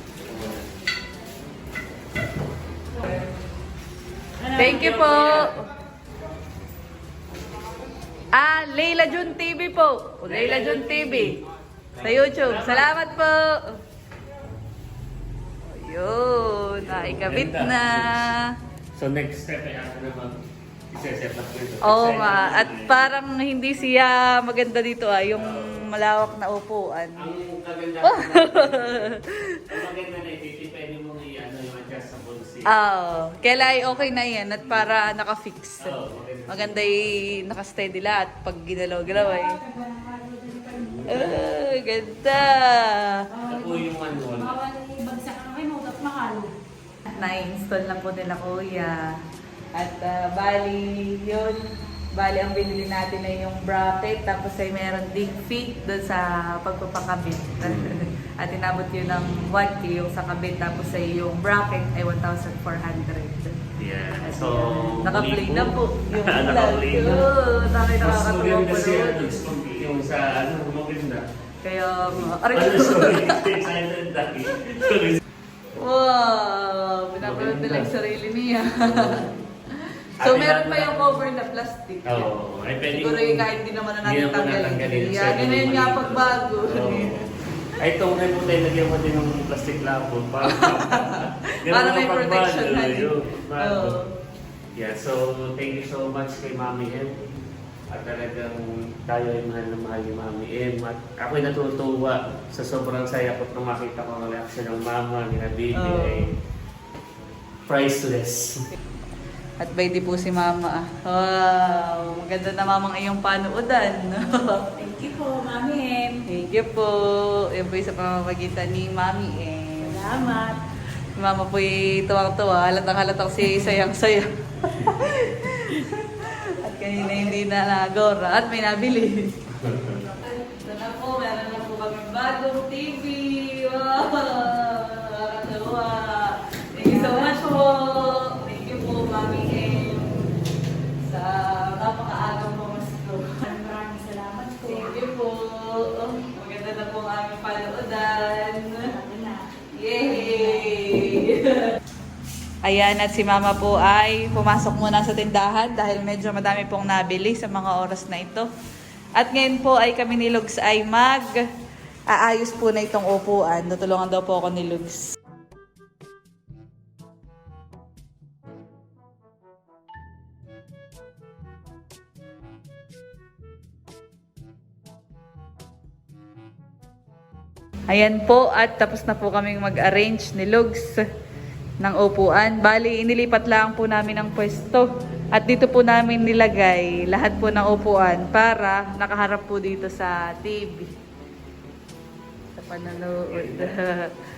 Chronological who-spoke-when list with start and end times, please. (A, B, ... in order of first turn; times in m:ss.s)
0:00.2-0:00.7 A
0:03.0-0:03.3 B
0:04.4-0:05.2 B
0:04.6-0:05.6 C
0:04.7-0:05.5 A
0:08.3-0:11.4 C
0:10.3-0:11.4 A
0:12.0-0:12.9 A
0:12.0-0:13.8 C
0:15.7-0:18.4 C
0:16.8-0:18.3 A
0:19.0-0:20.4 A
0:20.9-0:23.1 A
0:21.8-0:27.3 C
0:25.4-0:25.9 A
0:27.2-0:32.7 A
0:28.0-0:29.6 C
0:32.7-0:36.0 C
0:35.8-0:37.3 A
0:36.5-0:39.6 C
0:39.1-0:41.4 B
0:40.9-0:41.3 A
0:41.1-0:43.1 C
0:43.3-0:46.5 B
0:43.4-0:44.6 A
0:47.2-0:49.0 C
0:49.8-0:51.6 C
0:52.2-1:03.6 C
0:57.6-0:58.0 A
1:03.8-1:07.3 A
1:04.2-1:09.5 C
1:08.0-1:11.2 A
1:11.6-1:13.4 C
1:12.1-1:15.2 A
1:15.8-1:19.2 C
1:17.2-1:17.9 A
1:18.8-1:19.4 A
1:20.2-1:22.3 C
1:20.2-1:21.0 A
1:22.1-1:23.5 A
1:23.0-1:27.1 C
1:24.0-1:27.2 A
1:27.8-1:34.0 A
1:30.5-1:34.0 C
1:34.8-1:37.2 A
1:37.9-1:46.2 A
1:45.8-1:46.2 C
1:47.7-1:48.6 A
1:49.6-1:54.6 C
1:54.8-1:56.2 B
1:56.3-2:00.0 C
1:59.8-2:00.6 B
2:01.2-2:09.3 C
2:04.7-2:05.3 A
2:09.5-2:10.0 A
2:10.2-2:20.1 C
2:16.8-2:17.3 B
2:21.1-2:23.3 C
2:23.4-2:25.1 B
2:24.6-2:28.9 C
2:28.8-2:29.5 B
2:29.8-2:31.6 C
2:30.0-2:30.9 B
2:32.7-2:38.5 C
2:39.2-2:41.3 C
2:42.1-2:45.1 C
2:57.9-3:01.0 C
3:01.8-3:10.9 C
3:12.6-3:14.1 C
3:12.8-3:13.7 A